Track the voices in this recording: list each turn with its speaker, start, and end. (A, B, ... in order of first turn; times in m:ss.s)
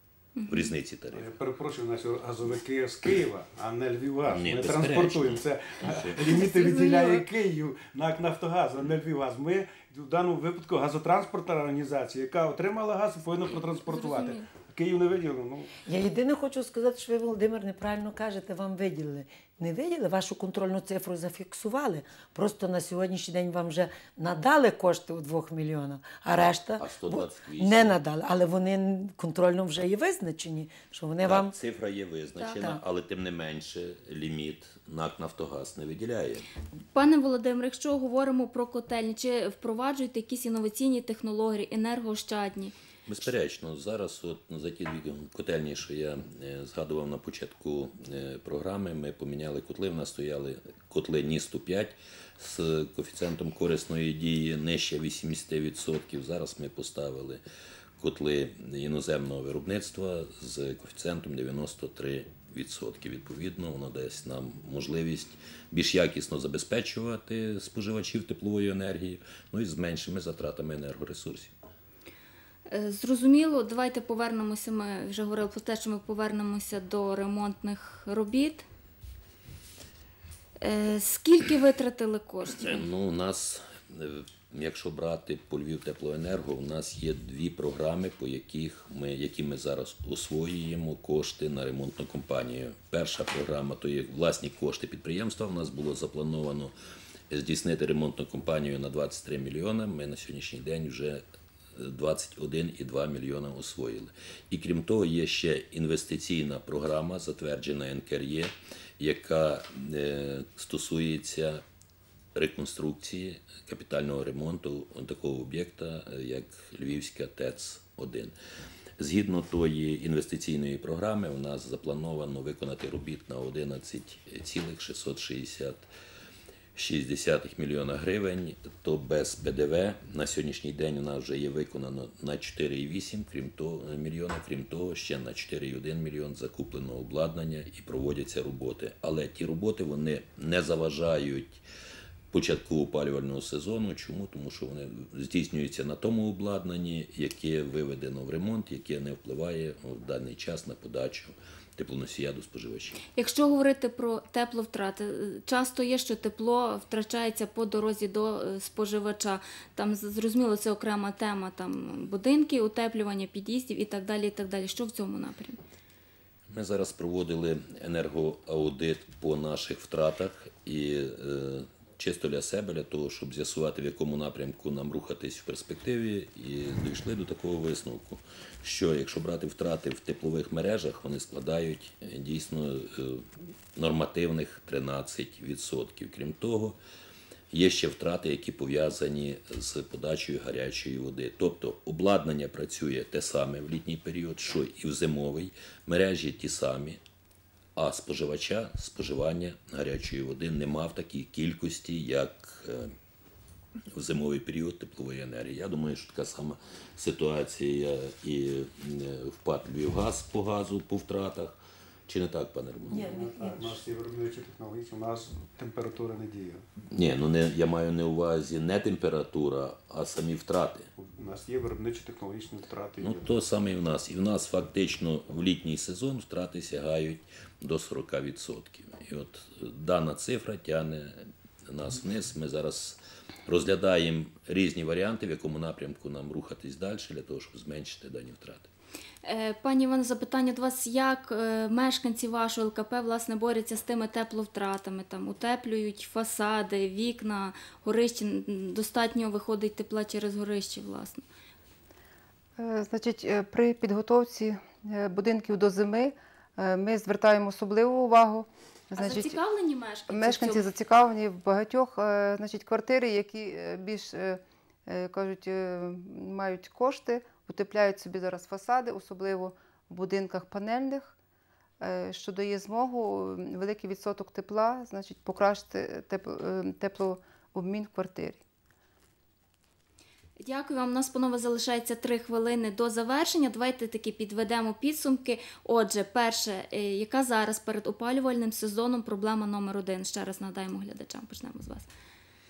0:00.4-0:00.7 A
0:00.5-0:01.3 B
0:01.1-0:15.8 C
0:04.2-0:06.2 B
0:06.3-0:07.2 A
0:13.7-0:14.5 A
0:15.8-0:31.5 D
0:26.8-0:28.0 B
0:31.2-0:36.5 B
0:36.9-0:42.7 A
0:43.0-0:57.4 B
0:58.0-1:11.5 B
1:12.7-1:18.6 A
1:20.6-1:22.8 A
1:22.6-1:36.7 B
1:37.3-1:41.2 B
1:41.7-1:51.6 B
1:52.3-1:58.3 B
1:59.0-2:05.8 B
2:06.7-2:21.6 B
2:22.3-2:33.0 B
2:33.1-2:45.6 A
2:46.5-3:06.8 B
3:07.5-3:17.0 B
3:17.8-3:22.9 B
3:23.9-3:31.6 B
3:32.1-3:33.1 B
3:32.9-3:33.8 D
3:33.0-3:36.6 C
3:36.9-3:40.9 B
3:41.0-3:43.3 C
3:43.0-3:58.7 B
3:59.2-4:11.2 A
4:12.6-4:19.4 E
4:18.9-4:20.6 A
4:20.1-4:31.1 E
4:31.8-4:38.4 E
4:40.4-4:51.9 A